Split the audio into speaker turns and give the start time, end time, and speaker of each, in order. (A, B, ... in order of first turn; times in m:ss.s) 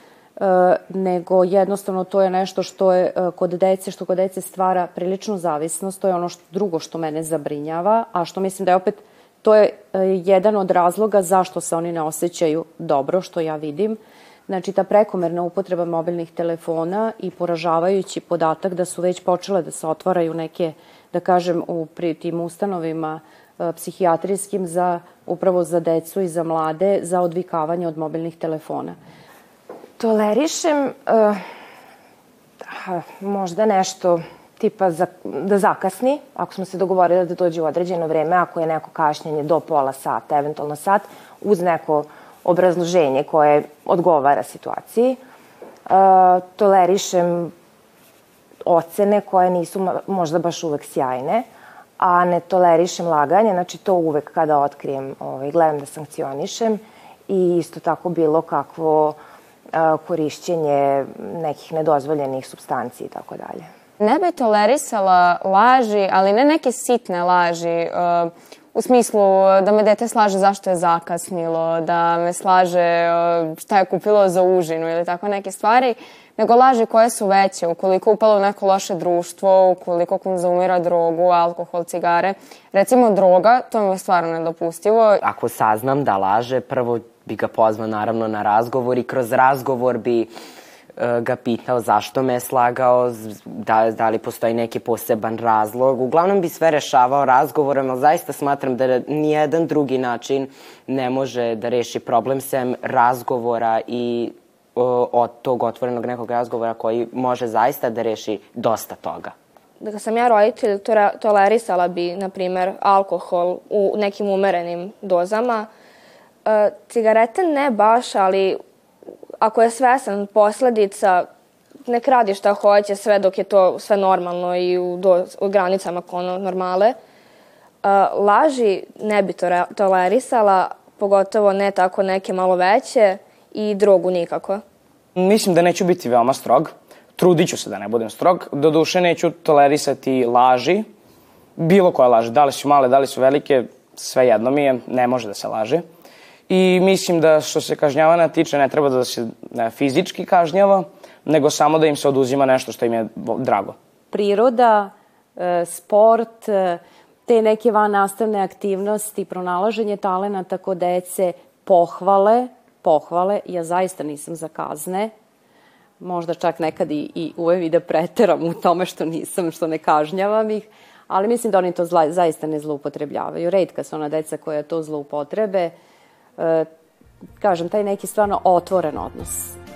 0:00.4-0:29.0 A
0:30.0-0:31.4 B
0:32.7-0:45.2 B
0:45.9-0:47.5 B
0:48.7-0:51.5 B
0:52.0-0:59.2 B
0:59.7-1:03.7 B
1:04.0-1:25.3 C
1:25.3-1:30.3 D
1:31.0-1:49.4 D
1:49.8-1:55.7 E
1:56.5-1:58.6 E
1:59.4-2:01.3 E
2:01.9-2:07.0 E
2:07.8-2:14.6 E
2:15.2-2:20.9 F
2:21.6-2:25.8 F
2:26.5-2:33.8 F
2:34.1-2:45.1 A
2:46.0-2:55.7 A
2:56.4-2:56.7 A
2:57.4-2:59.6 A